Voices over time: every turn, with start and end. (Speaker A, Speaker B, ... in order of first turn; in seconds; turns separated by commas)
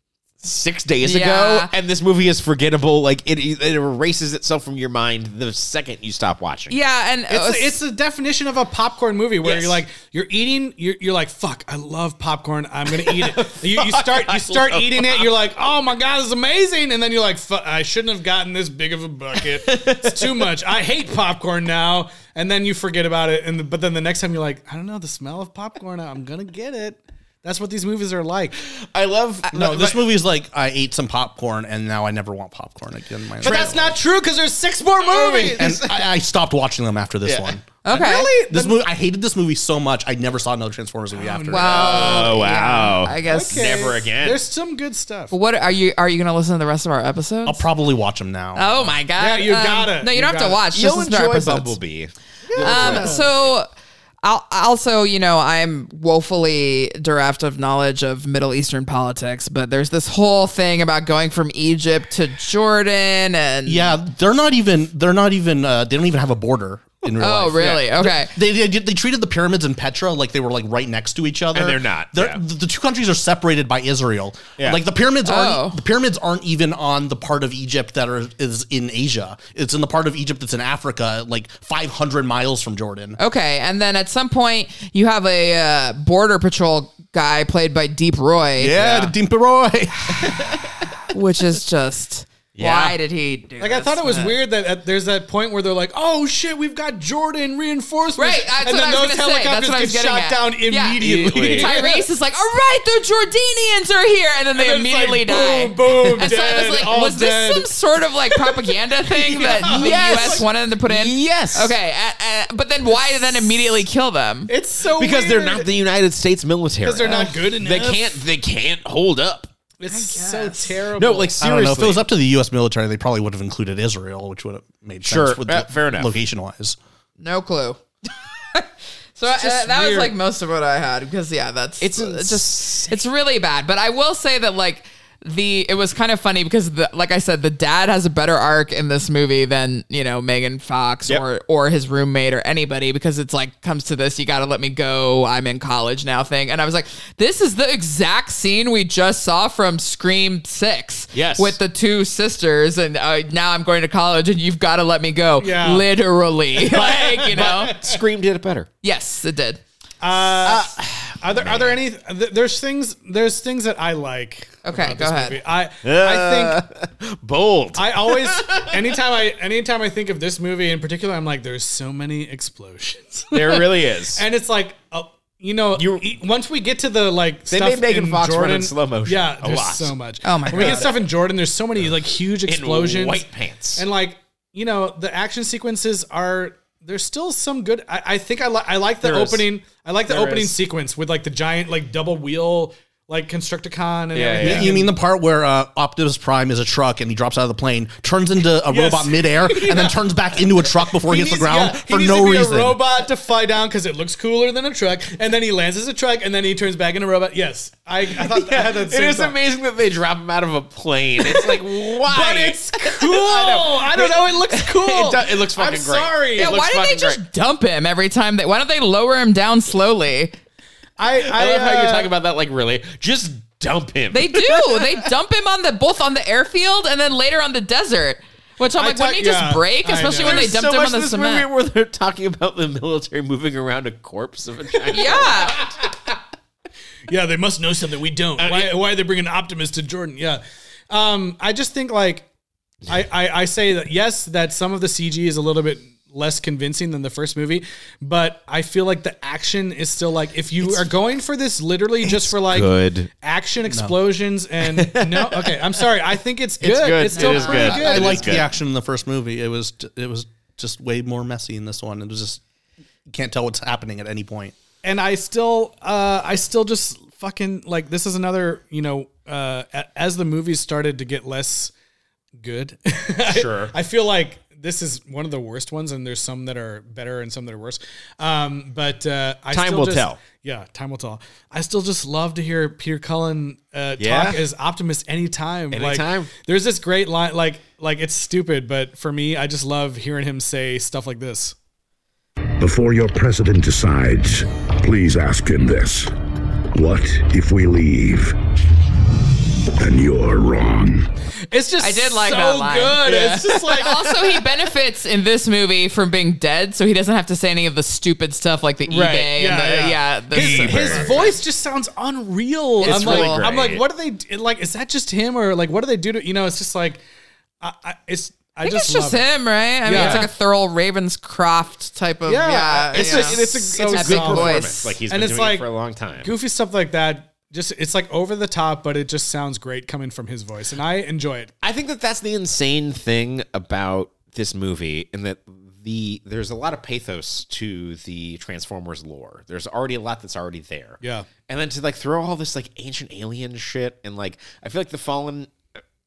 Speaker A: 0.4-6.8, Speaker B: 1.0-1.7, Speaker B: 6.7-7.8, Speaker C: 7.3-28.6, Speaker A: 9.4-9.8, Speaker A: 12.9-15.3, Speaker A: 19.4-20.5, Speaker A: 28.6-30.1, Speaker D: 29.5-34.0, Speaker C: 33.4-35.8, Speaker A: 33.4-33.9, Speaker A: 35.0-36.1, Speaker D: 35.5-41.9, Speaker A: 37.2-37.5, Speaker B: 37.8-38.3, Speaker C: 37.9-38.9, Speaker C: 41.1-42.4, Speaker B: 41.5-43.7, Speaker A: 41.6-44.4, Speaker C: 43.2-45.3, Speaker B: 45.3-47.6, Speaker D: 47.5-48.8, Speaker B: 48.5-51.8, Speaker C: 49.2-50.6, Speaker A: 50.7-53.5, Speaker C: 52.5-53.3, Speaker B: 52.6-53.7, Speaker B: 54.2-63.9, Speaker D: 63.7-83.2, Speaker B: 67.2-68.3, Speaker A: 67.6-67.8, Speaker A: 71.5-72.4, Speaker B: 75.2-75.8, Speaker B: 83.2-89.1, Speaker D: 88.6-90.6, Speaker B: 91.1-94.4, Speaker A: 92.5-93.0, Speaker C: 93.6-102.1, Speaker B: 98.2-114.5, Speaker A: 101.0-101.8, Speaker C: 104.5-107.7, Speaker C: 109.1-110.5, Speaker A: 109.5-111.8, Speaker C: 114.5-115.7, Speaker A: 115.0-119.5, Speaker C: 116.8-118.2, Speaker C: 119.8-121.4, Speaker B: 119.9-120.7, Speaker A: 121.0-122.1, Speaker D: 121.4-126.8, Speaker A: 125.0-126.2, Speaker B: 127.2-127.8, Speaker B: 128.5-157.8, Speaker C: 129.3-130.2, Speaker A: 131.8-133.0, Speaker A: 151.1-151.6, Speaker C: 155.4-155.9, Speaker A: 156.7-158.7, Speaker C: 156.8-158.0, Speaker B: 158.8-159.6, Speaker C: 160.0-166.6, Speaker A: 160.4-161.8, Speaker B: 164.6-165.4, Speaker A: 165.8-169.0, Speaker C: 167.8-194.9, Speaker A: 173.3-174.2, Speaker A: 175.8-176.1, Speaker A: 177.5-180.0, Speaker B: 180.2-180.9, Speaker A: 180.5-180.9, Speaker A: 181.8-183.8, Speaker A: 189.0-189.5, Speaker A: 190.1-190.6, Speaker A: 194.1-194.9, Speaker D: 194.4-202.8, Speaker C: 198.7-209.4, Speaker A: 208.0-217.2, Speaker C: 211.2-216.6, Speaker B: 216.4-220.3, Speaker C: 221.0-222.1, Speaker A: 221.2-225.1, Speaker B: 224.1-231.5, Speaker C: 228.8-230.5, Speaker A: 230.2-235.9, Speaker B: 234.9-235.6, Speaker C: 237.1-242.3, Speaker A: 238.4-238.8, Speaker C: 242.9-258.4, Speaker A: 252.0-253.1, Speaker D: 253.7-253.9, Speaker A: 254.6-255.9, Speaker A: 256.6-258.5, Speaker B: 257.1-257.9, Speaker D: 257.6-262.4, Speaker D: 263.1-264.6, Speaker C: 264.8-271.7, Speaker C: 272.4-291.6, Speaker A: 273.3-273.7, Speaker A: 279.5-280.2, Speaker A: 284.0-284.4, Speaker A: 285.7-286.3, Speaker E: 292.6-296.1, Speaker E: 296.7-298.4, Speaker E: 299.8-301.1, Speaker C: 301.5-304.1, Speaker B: 301.8-311.4, Speaker A: 303.1-303.9, Speaker A: 308.9-309.5, Speaker C: 309.0-317.0, Speaker A: 310.3-311.3, Speaker A: 312.8-313.9, Speaker B: 312.8-313.5, Speaker C: 317.6-319.3, Speaker B: 318.6-325.0, Speaker C: 319.9-320.3, Speaker A: 319.9-320.3, Speaker C: 322.3-325.7, Speaker A: 322.9-326.3, Speaker C: 326.2-331.5, Speaker A: 331.6-345.5, Speaker C: 341.0-341.3